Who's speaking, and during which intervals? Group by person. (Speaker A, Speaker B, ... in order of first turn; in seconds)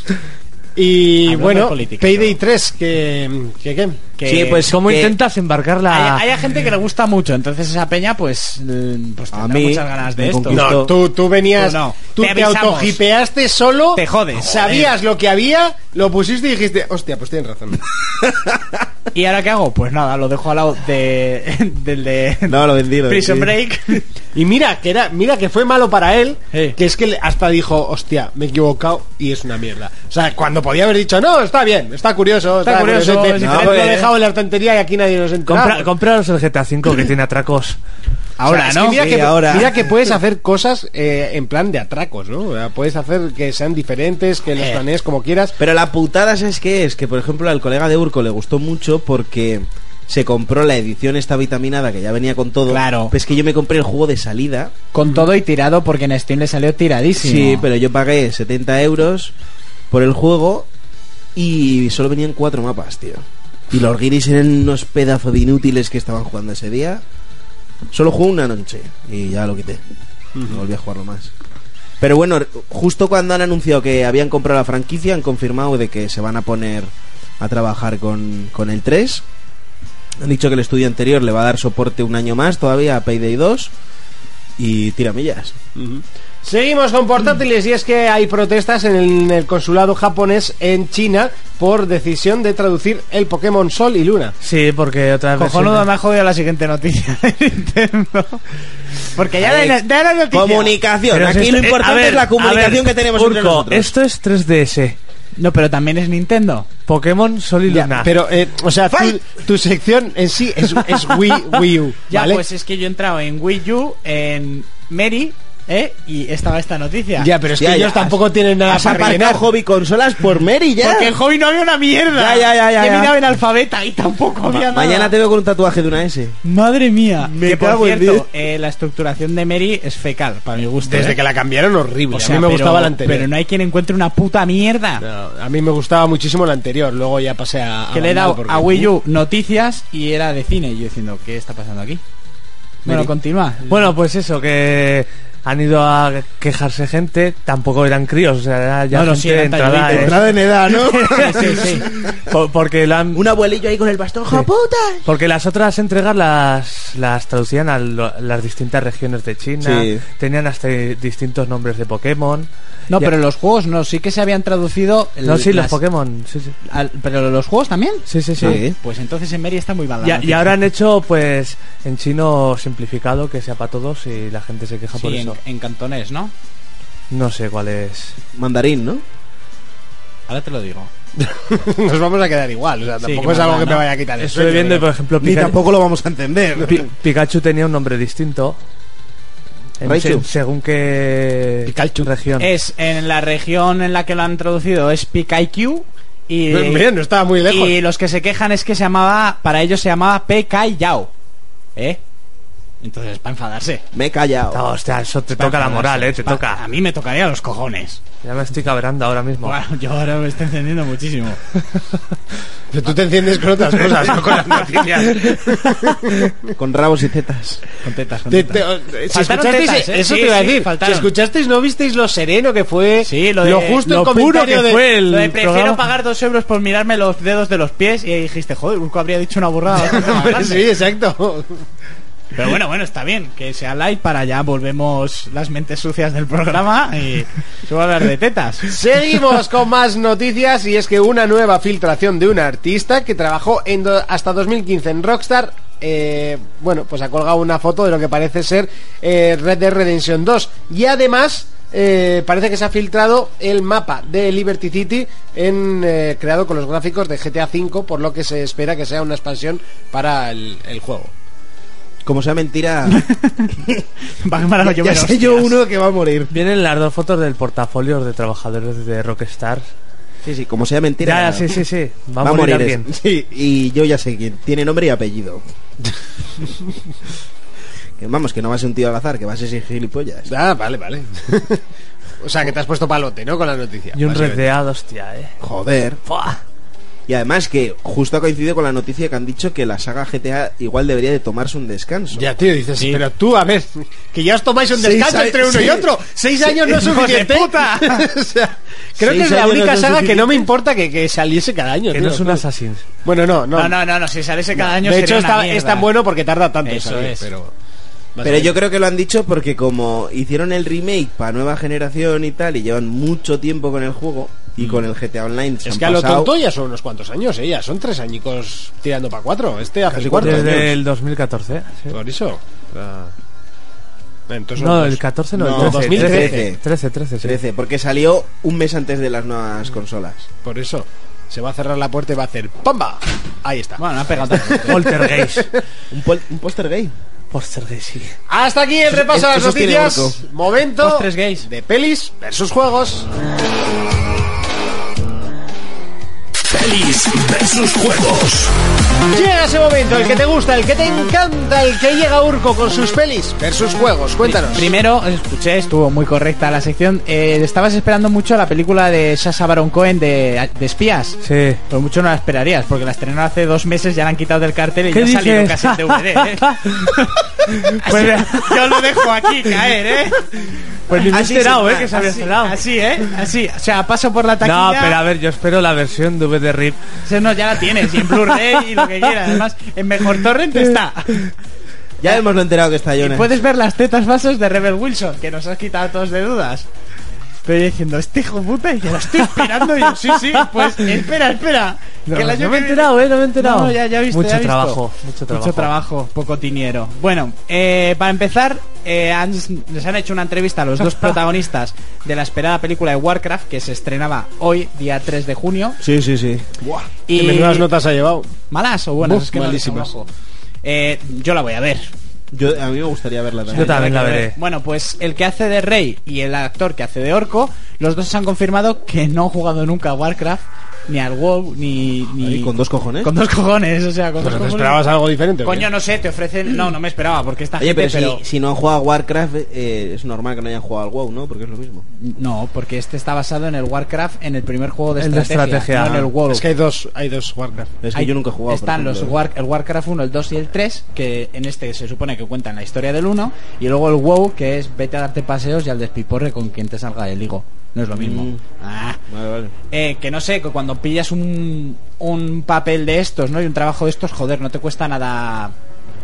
Speaker A: 0.8-4.1, 10.5-17.8, 24.3-35.9, 38.5-45.5, 70.4-70.6, 85.8-94.4, 107.8-112.4, 117.2-119.4, 130.8-133.3, 135.0-138.9, 181.2-184.9, 191.7-192.1, 196.5-197.8, 212.7-216.3, 218.3-225.0, 229.8-231.6, 238.7-261.1, 280.3-281.6, 282.2-284.5, 292.1-302.4, 303.0-303.8, 304.6-307.5, 308.1-308.6, 315.6-320.7, 321.9-323.1, 324.3-326.5, 330.4-335.4, 338.3-343.1, 349.1-354.7, 407.1-408.3, 409.0-409.9, 424.2-425.7, 436.3-437.8
Speaker B: 1.2-2.4, 4.2-4.7, 5.9-10.8, 11.6-13.0, 13.9-14.9, 19.1-24.1, 26.5-26.8, 32.6-34.1, 38.4-39.1, 44.6-44.8, 52.7-53.1, 54.9-57.7, 95.4-98.4, 99.0-100.8, 105.4-106.7, 112.1-117.3, 118.7-119.4, 120.8-125.1, 126.4-131.2, 132.1-135.0, 137.9-142.0, 142.8-143.9, 148.9-150.2, 150.9-151.9, 162.9-165.8, 166.7-170.6, 174.9-176.3, 180.3-180.9, 183.0-183.9, 192.4-196.9, 197.5-201.1, 201.8-202.0, 202.8-203.8, 205.3-208.0, 209.4-211.4, 217.8-221.1, 223.0-230.7, 232.3-238.7, 262.9-263.5, 264.2-265.6, 296.7-298.1, 303.6-305.9, 306.6-307.3, 333.8-334.9, 340.8-341.5, 354.2-370.3, 370.9-375.0, 377.1-381.3, 383.0-386.7, 387.4-405.8, 407.1-407.7, 408.5-410.1, 410.6-411.9, 413.5-424.8, 425.4-428.2, 432.0-436.4, 437.9-449.0, 449.7-455.5
Speaker C: 4.2-5.2, 9.3-10.9, 18.2-18.8, 22.5-23.6, 33.4-34.0, 38.7-39.8, 45.6-54.7, 57.2-59.3, 59.9-60.7, 61.4-67.0, 67.9-69.8, 70.5-71.3, 72.0-79.2, 80.2-83.7, 84.6-85.6, 99.4-99.8, 100.3-103.9, 108.9-109.2, 117.6-118.2, 118.7-121.1, 122.1-123.2, 124.5-126.4, 127.2-128.3, 149.9-152.2, 153.1-155.1, 159.6-160.0, 168.4-168.8, 178.3-179.0, 185.2-186.9, 189.8-190.3, 203.9-204.7, 216.6-217.6, 262.0-263.1, 264.6-266.3, 270.2-271.6, 272.2-275.4, 278.0-280.3, 285.4-286.0, 287.1-292.3, 294.7-295.9, 299.0-300.5, 308.2-316.3, 319.9-320.8, 325.4-326.6, 327.2-330.3, 335.9-336.9, 338.9-340.2, 371.1-371.9, 382.0-383.4, 405.8-406.9, 412.3-413.9, 422.2-423.1, 427.6-431.9, 437.8-439.2, 447.9-448.4, 449.1-449.5
Speaker D: 4.7-6.2, 35.5-37.8, 94.4-95.9, 101.1-105.0, 106.9-108.1, 143.7-150.2, 151.2-153.2, 155.1-163.1, 165.2-166.6, 168.1-168.6, 170.0-175.4, 177.1-178.2, 184.2-185.6, 186.7-188.6, 189.8-192.5, 204.5-206.6, 208.2-209.6, 224.0-225.8, 266.3-269.7, 271.0-272.9, 283.9-285.3, 286.1-286.4, 301.9-302.8, 320.2-321.9, 324.6-327.4, 334.7-335.5, 337.3-338.1, 361.2-361.6, 364.9-368.6, 370.9-372.6, 374.4-376.9, 390.3-390.9, 392.1-395.7, 413.6-414.4, 435.0-436.1
Speaker E: 346.5-348.5